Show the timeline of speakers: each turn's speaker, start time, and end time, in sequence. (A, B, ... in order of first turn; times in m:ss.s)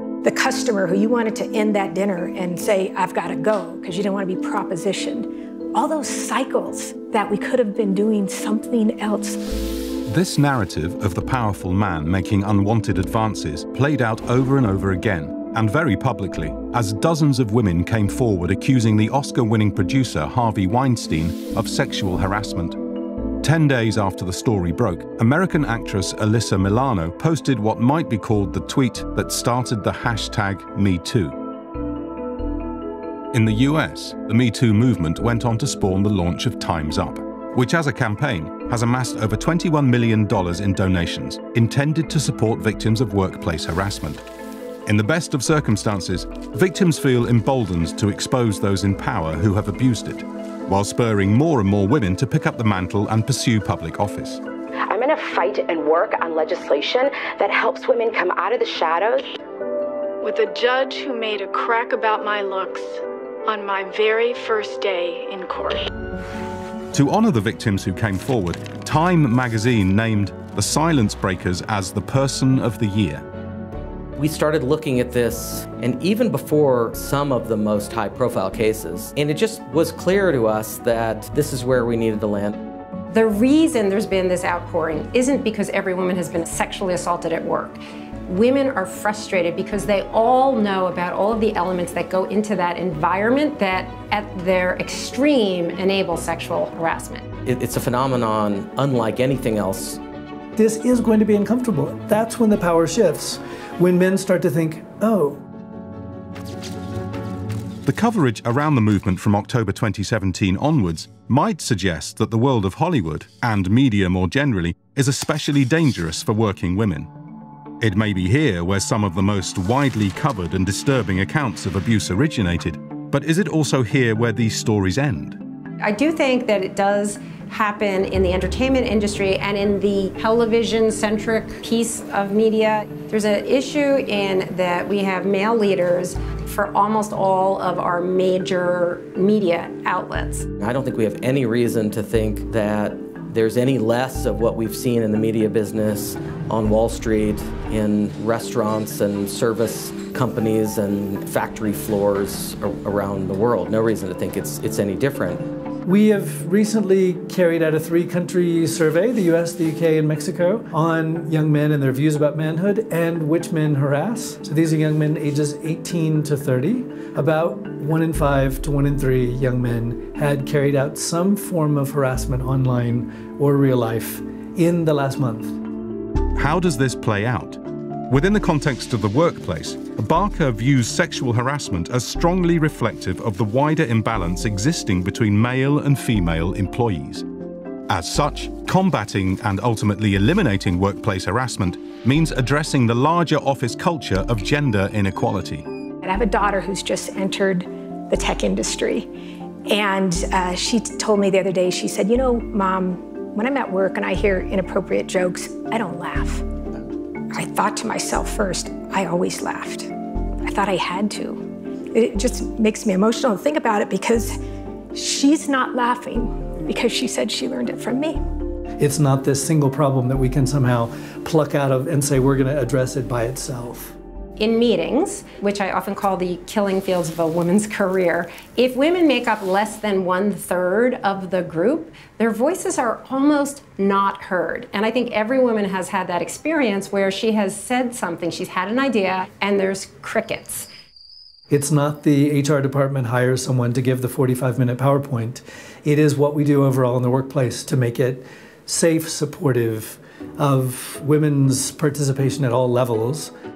0:00.2-0:09.4 A
0:10.1-0:22.8 B
0:23.4-0:31.4 B
0:33.3-0:44.2 B
0:44.8-0:54.4 B
0:54.9-0:59.2 C
1:00.2-1:05.9 D
1:06.9-1:13.2 B
1:14.2-1:22.6 E
1:23.1-1:37.2 F
1:37.4-1:40.0 E
1:40.6-1:45.4 G
1:47.8-1:57.1 B
1:57.8-2:05.4 B
2:05.8-2:20.5 F
2:20.6-2:35.4 E
2:35.8-2:55.6 G
2:56.3-3:07.2 B
3:07.9-3:15.6 B
3:16.1-3:19.0 A
3:19.7-3:26.4 A
3:27.3-3:29.9 A
3:30.5-3:31.4 A
3:32.0-3:34.3 A
3:34.9-3:38.1 A
3:38.8-3:44.0 G
3:44.4-4:00.7 F
4:01.5-4:13.3 G